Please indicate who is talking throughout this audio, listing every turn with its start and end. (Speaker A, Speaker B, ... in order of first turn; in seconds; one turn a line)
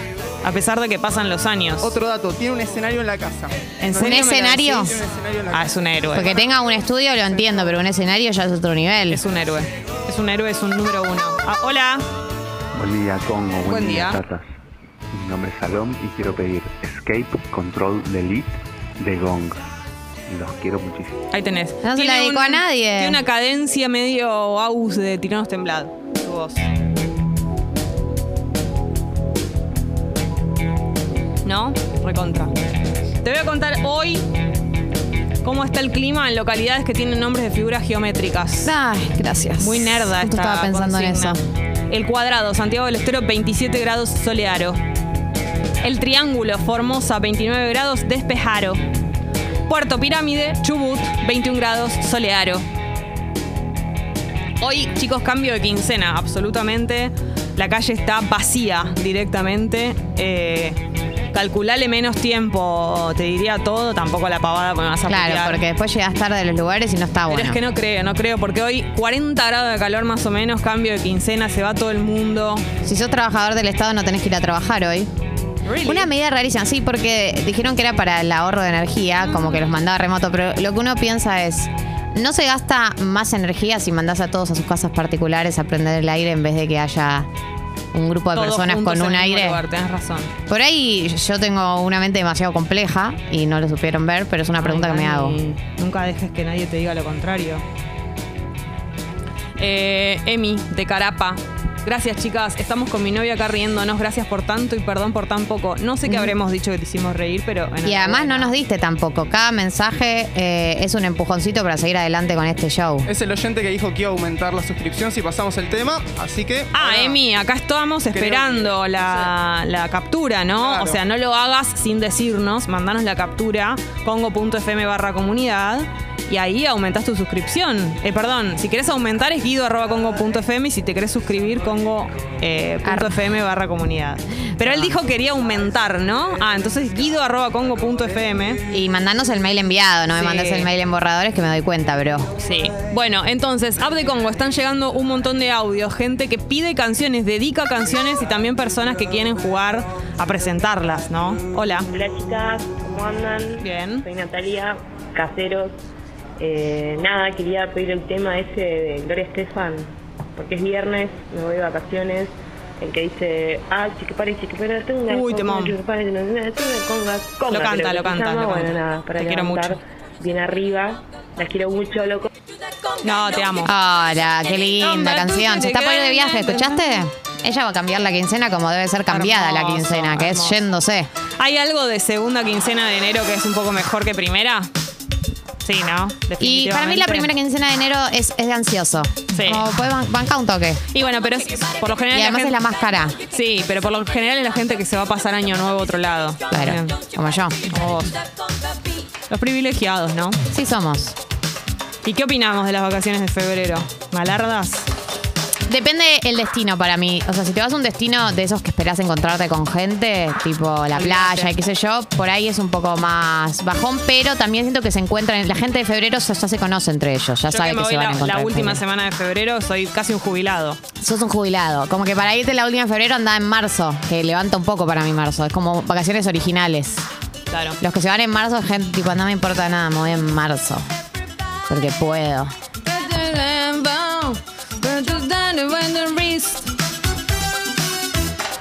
Speaker A: 0.4-1.9
Speaker B: 1.8-5.7
Speaker C: 3.8-5.0
Speaker A: 3.8-4.9
Speaker A: 5.5-6.3
Speaker C: 6.1-9.2
Speaker A: 9.1-12.1
Speaker D: 12.7-14.5
Speaker A: 13.6-14.2
Speaker D: 15.1-19.6
Speaker D: 20.3-21.2
Speaker A: 21.3-26.6
Speaker C: 21.8-23.2
Speaker A: 31.4-32.5
Speaker A: 33.2-34.2
Speaker A: 35.4-38.7
Speaker C: 38.6-41.4
Speaker A: 39.6-41.4
Speaker A: 41.9-44.8
Speaker A: 45.8-48.8
Speaker A: 49.7-52.6
Speaker A: 54.6-60.8
Speaker A: 61.3-65.6
Speaker C: 65.1-67.6
Speaker A: 67.3-72.7
Speaker C: 72.8-75.1
Speaker A: 75.6-76.1
Speaker C: 75.8-87.3
Speaker A: 79.3-79.6
Speaker C: 87.9-89.6
Speaker A: 88.3-90.3
Speaker C: 90.5-95.4
Speaker A: 94.6-97.6
Speaker A: 99.6-108.5
Speaker C: 106.1-106.3
Speaker C: 107.8-113.1
Speaker B: 113.1-117.2
Speaker A: 116.7-138.6
Speaker B: 118.1-119.3
Speaker B: 120.5-121.0
Speaker C: 132.8-133.2
Speaker C: 134.6-135.0
Speaker C: 138.7-142.3
Speaker A: 140.2-140.7
Speaker A: 142.4-151.9
Speaker E: 151.9-155.7
Speaker A: 153.6-154.1
Speaker E: 156.4-172.3
Speaker A: 165.1-165.8
Speaker A: 167.5-169.8
Speaker A: 173.0-173.7
Speaker C: 173.6-181.1
Speaker A: 174.8-177.0
Speaker A: 179.1-180.6
Speaker A: 181.4-184.7
Speaker A: 185.6-187.3
Speaker C: 186.4-190.8
Speaker A: 189.3-189.7
Speaker A: 190.9-192.6
Speaker C: 192.1-193.2
Speaker A: 193.3-197.0
Speaker C: 196.5-197.7
Speaker A: 197.7-198.2
Speaker A: 199.3-200.4
Speaker C: 200.5-201.2
Speaker A: 202.1-204.9
Speaker C: 205.7-218.8
Speaker A: 210.9-211.5
Speaker A: 217.5-220.8
Speaker C: 221.0-227.1
Speaker A: 227.5-227.8
Speaker C: 227.8-230.9
Speaker C: 231.7-232.5
Speaker A: 232.8-236.7